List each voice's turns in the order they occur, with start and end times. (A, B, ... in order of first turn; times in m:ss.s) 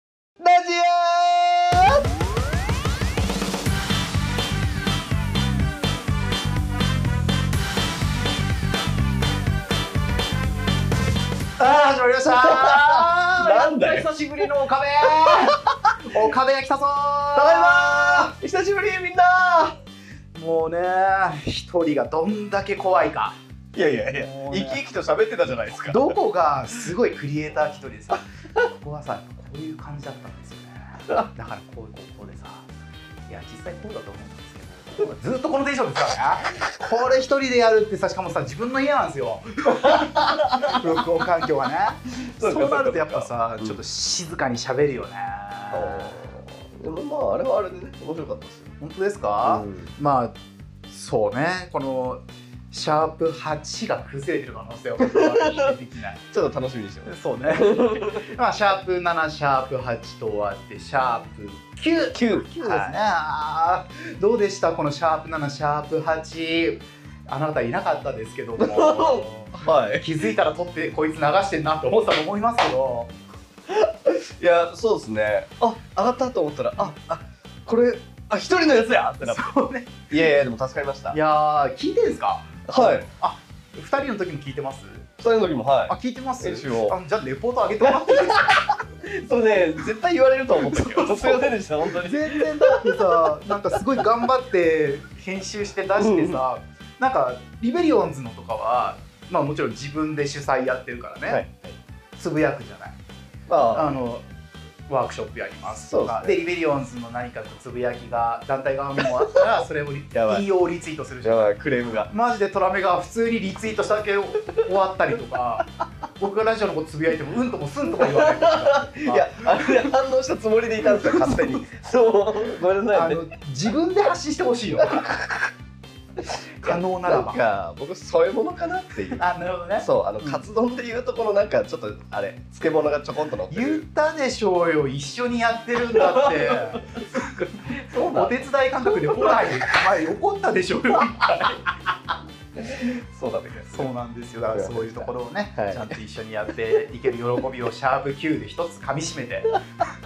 0:00.4-0:02.0 A
0:11.6-0:18.4 B
0:12.4-0:14.5 A
0:15.3-0:15.9 A
0:17.4-0:19.7 A
0:20.3-0:23.4 B
0:23.7-0:26.2 A
0:24.1-0:24.8 B
0:25.9-0:32.7 B
0:33.3-0:46.2 B
0:39.8-0:41.5 A
0:42.2-0:43.8 A
0:45.7-0:48.8 A
0:48.8-0:50.4 B
0:49.4-0:49.9 A
0:50.9-0:56.2 B
0:55.0-0:55.7 A
0:56.3-0:58.3 A
0:57.0-1:13.2 B
1:02.1-1:03.0 A
1:08.6-1:10.1 A
1:13.7-1:19.6 A
1:19.2-1:20.0 B
1:20.1-1:21.2 A
1:21.1-1:25.1 B
1:22.7-1:23.1 A
1:25.2-1:27.0 A
1:25.9-1:28.8 B
1:27.8-1:33.5 A
1:30.6-1:41.4 B
1:36.0-1:36.4 A
1:41.3-1:41.8 A
1:42.2-1:43.0 B
1:43.5-1:44.0 A
1:43.7-1:44.3 B
1:44.9-1:59.9 B
1:45.7-1:46.4 A
1:50.1-1:50.5 A
1:51.2-1:52.1 A
1:57.9-2:03.2 A
2:00.8-2:01.6 B
2:02.9-2:05.2 B
2:04.8-2:05.5 A
2:06.3-2:09.2 A
2:06.6-2:07.4 B
2:09.2-2:10.4 B
2:09.8-2:13.8 A
2:13.5-2:21.9 B
2:15.9-2:17.1 A
2:17.6-2:19.8 A
2:22.6-2:23.9 A
2:23.7-2:29.6 B
2:24.5-2:25.9 A